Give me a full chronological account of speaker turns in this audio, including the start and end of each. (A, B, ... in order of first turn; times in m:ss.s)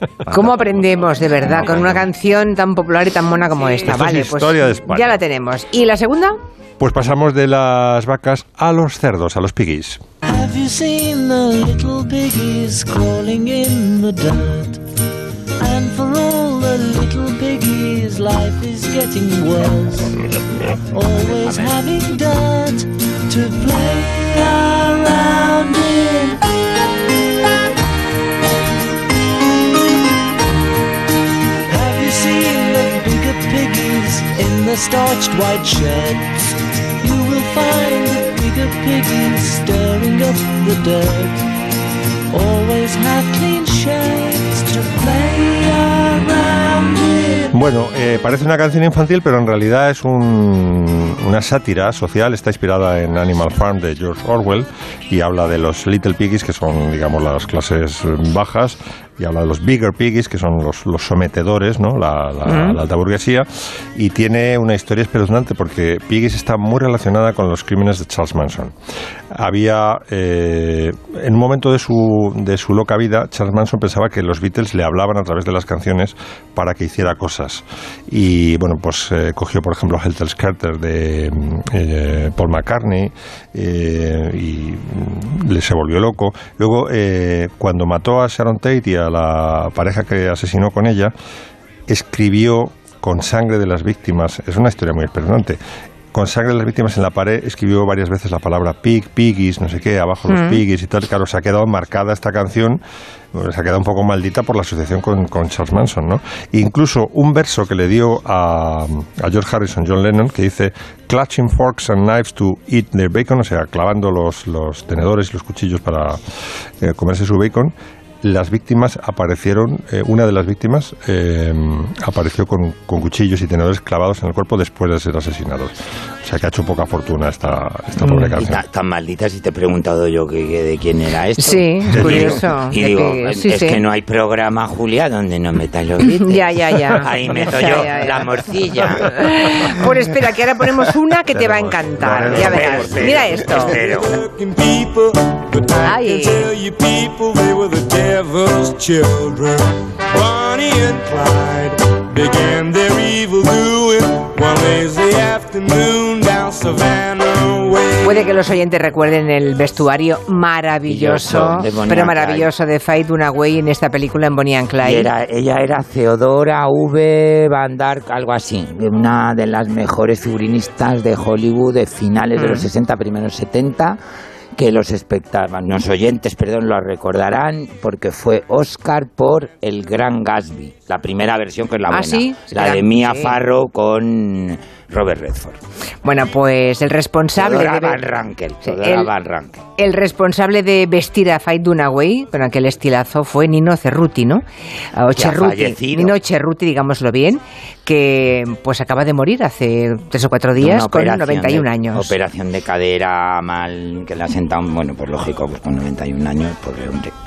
0:00.2-0:02.1 A
0:00.3-0:06.4 B
0:03.8-0:05.2 A
0:06.8-0:10.0 A
0:10.2-0:14.8 C
0:15.6-0:20.3 C
0:20.9-0:26.4 C
0:31.7-0:41.4 C
0:42.3-0:47.6 C
0:47.5-1:08.8 A
1:02.5-1:02.8 B
1:09.3-1:31.1 A
1:31.9-1:35.6 A
1:36.1-1:42.8 A
1:40.3-1:40.6 B
1:43.3-1:56.2 A
1:56.8-2:08.6 A
2:08.2-2:19.1 D
2:11.4-2:13.8 B
2:11.9-2:12.3 A
2:16.1-2:18.2 B
2:19.1-2:23.8 B
2:21.4-2:23.3 A
2:22.0-2:24.2 D
2:25.8-2:26.5 B
2:26.0-2:29.0 E
2:34.4-2:36.8 E
2:38.0-2:45.1 B
2:40.9-2:42.5 D
2:44.8-2:54.0 D
2:52.4-2:52.7 B
2:54.6-3:05.6 D
3:01.9-3:03.3 B
3:06.0-3:08.0 B
3:07.4-3:09.6 D
3:08.6-3:09.1 B
3:09.8-3:14.4 B
3:15.0-3:22.1 B
3:15.2-3:16.2 D
3:20.6-3:27.1 D